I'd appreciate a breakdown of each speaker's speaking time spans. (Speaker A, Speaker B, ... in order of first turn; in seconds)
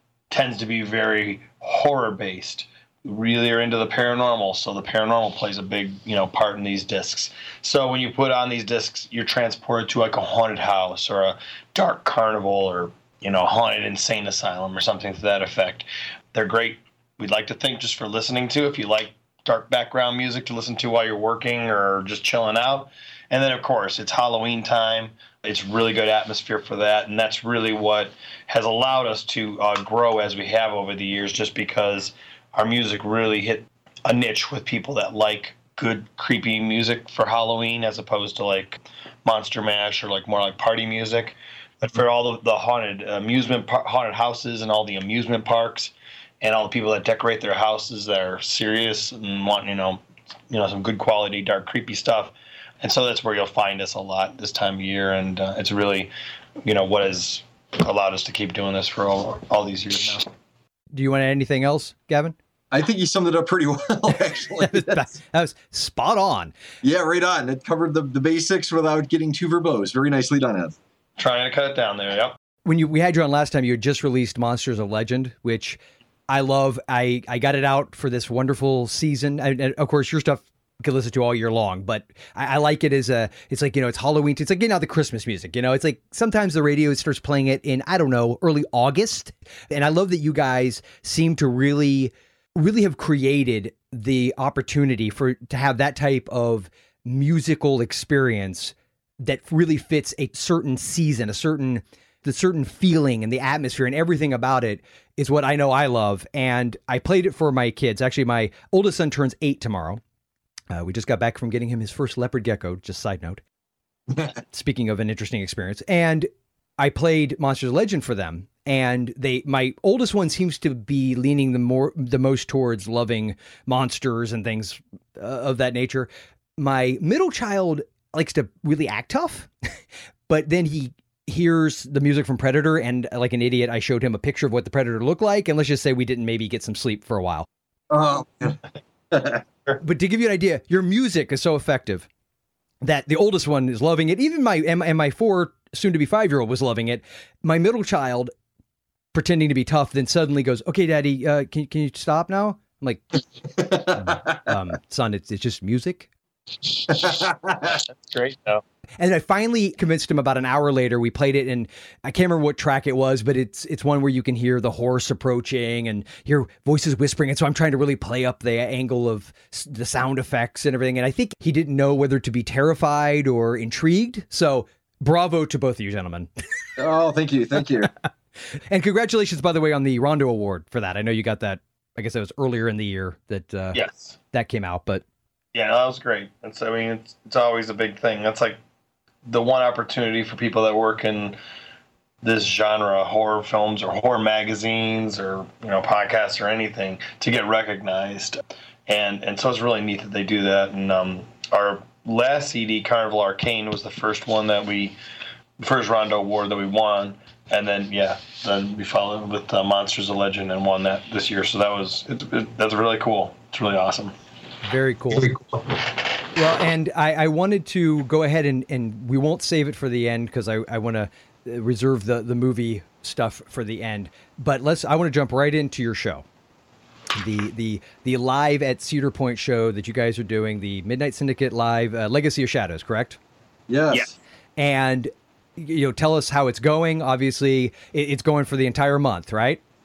Speaker A: 0.3-56.1, 56.6-60.2, 71.2-72.3, 157.6-158.6, 183.7-184.2, 185.5-188.6, 189.3-191.4, 192.2-205.0, 205.6-214.1
Speaker B: 60.9-62.4, 64.6-66.5, 72.7-75.8, 76.3-110.0, 110.7-113.4, 114.5-129.5, 130.3-137.5, 139.8-142.1, 142.8-148.3, 149.1-153.2, 153.9-156.1, 159.0-176.3, 178.7-183.8, 184.3-185.0, 214.7-215.3, 216.3-226.2, 227.2-233.2, 234.6-239.6
Speaker C: 62.7-65.0, 66.8-70.8, 137.9-139.4, 153.8-154.3, 156.9-157.8, 176.8-177.9, 233.7-234.2